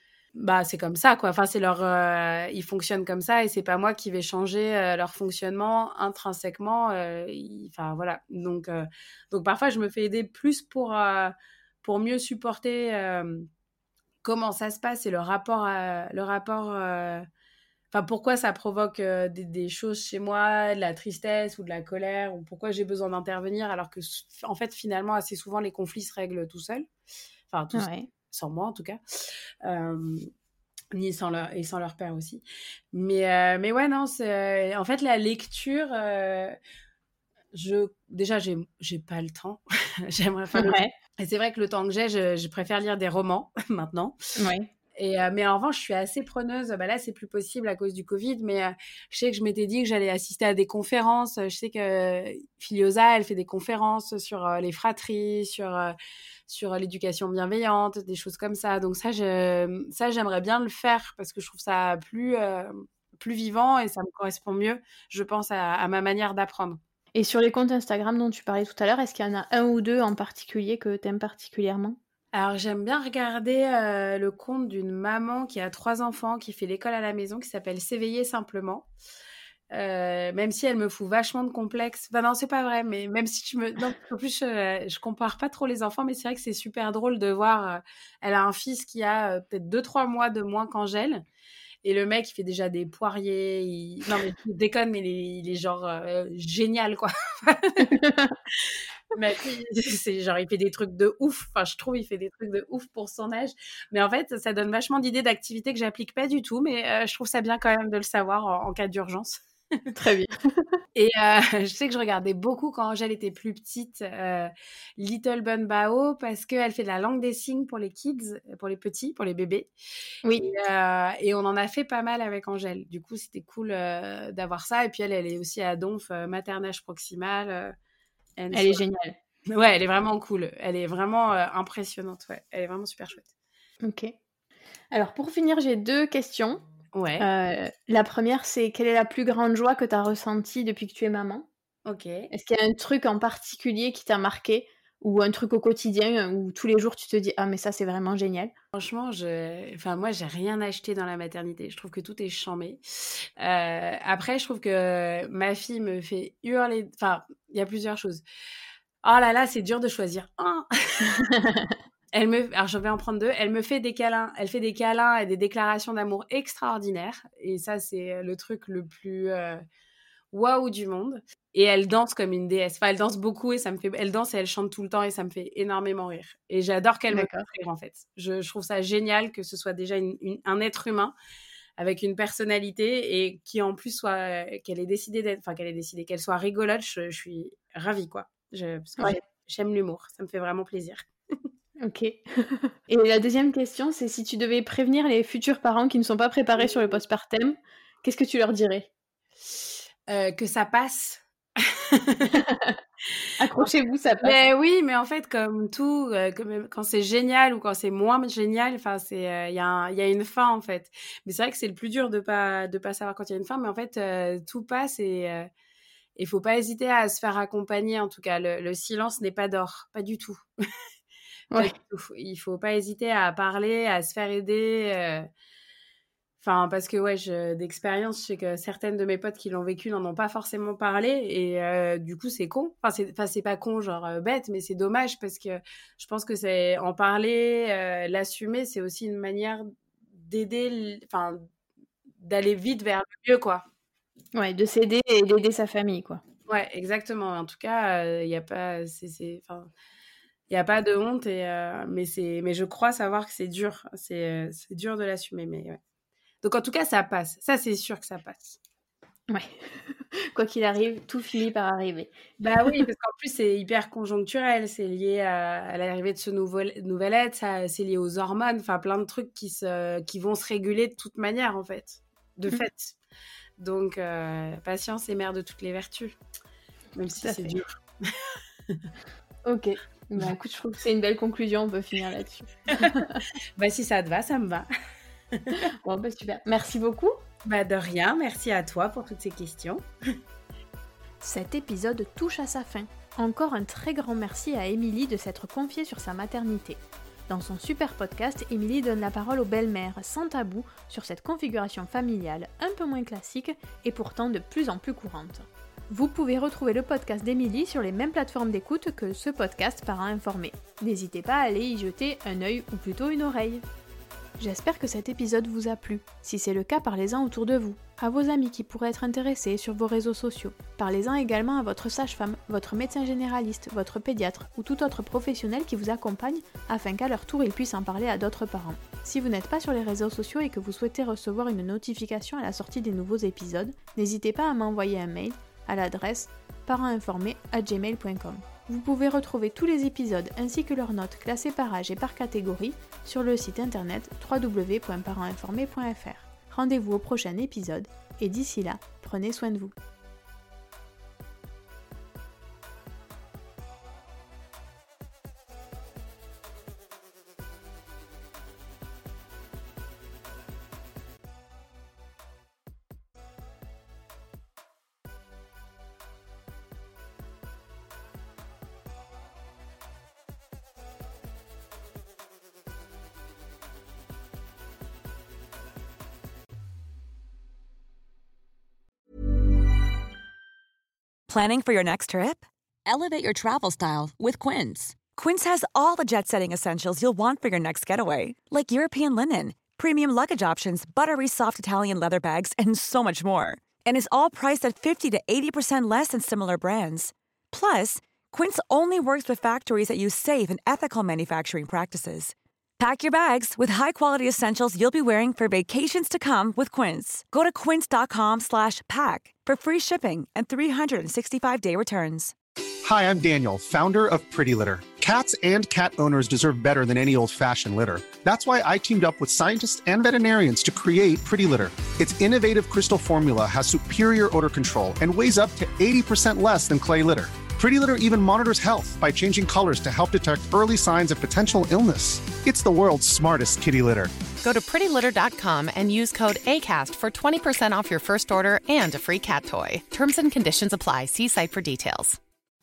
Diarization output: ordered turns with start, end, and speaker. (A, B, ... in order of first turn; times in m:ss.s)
0:00.4-0:13.4 A
0:14.2-0:17.2 A
0:17.9-0:26.9 A
0:27.5-0:29.0 A
0:27.7-0:28.1 B
0:29.6-0:30.3 A
0:30.9-0:36.6 A
0:37.5-0:44.1 A
0:40.6-0:40.9 B
0:44.4-0:44.7 B
0:45.0-0:55.9 A
0:56.5-1:06.8 A
1:07.1-1:12.0 B
1:12.3-1:18.8 A
1:19.7-1:31.2 A
1:31.8-1:38.0 A
1:37.8-1:38.3 B
1:38.6-1:49.4 A
1:50.0-1:50.6 B
1:50.9-1:59.7 A
2:00.2-2:00.6 B
2:00.4-2:07.7 A
2:08.4-2:08.8 A
2:08.5-2:09.2 B
2:09.5-2:13.3 A
2:13.8-2:14.1 B
2:14.9-2:16.6 B
2:16.9-2:17.2 A
2:17.2-2:21.5 B
2:21.8-2:22.2 A
2:22.3-2:28.5 B
2:28.7-2:32.8 A
2:33.4-2:38.2 A
2:39.0-2:41.2 A
2:41.2-2:41.8 B
2:42.1-2:49.6 A
2:50.3-3:01.1 A
2:57.1-2:57.4 B
3:01.8-3:11.0 A
3:11.8-3:18.9 B
3:16.6-3:17.0 A
3:20.1-3:22.4 A
3:22.3-3:22.8 B
3:23.4-3:24.4 B
3:24.2-3:35.5 A
3:36.2-3:40.4 A
3:41.6-3:45.3 A
3:46.4-4:01.4 A
4:02.2-4:03.6 A
4:04.3-4:06.2 B
4:06.5-4:09.7 A
4:10.5-4:15.8 A
4:16.4-4:18.6 A
4:19.3-4:22.1 B
4:22.4-4:32.9 A
4:33.6-4:36.1 A
4:37.0-4:38.1 A
4:37.2-4:37.6 B
4:39.4-4:43.2 B
4:42.7-4:43.0 A
4:43.6-4:44.7 A
4:45.5-4:47.2 B
4:47.4-4:49.8 A
4:51.2-5:13.6 B
5:14.4-5:49.7 B
6:21.3-6:52.3 C
6:52.8-7:14.2 D
7:14.4-7:22.2 E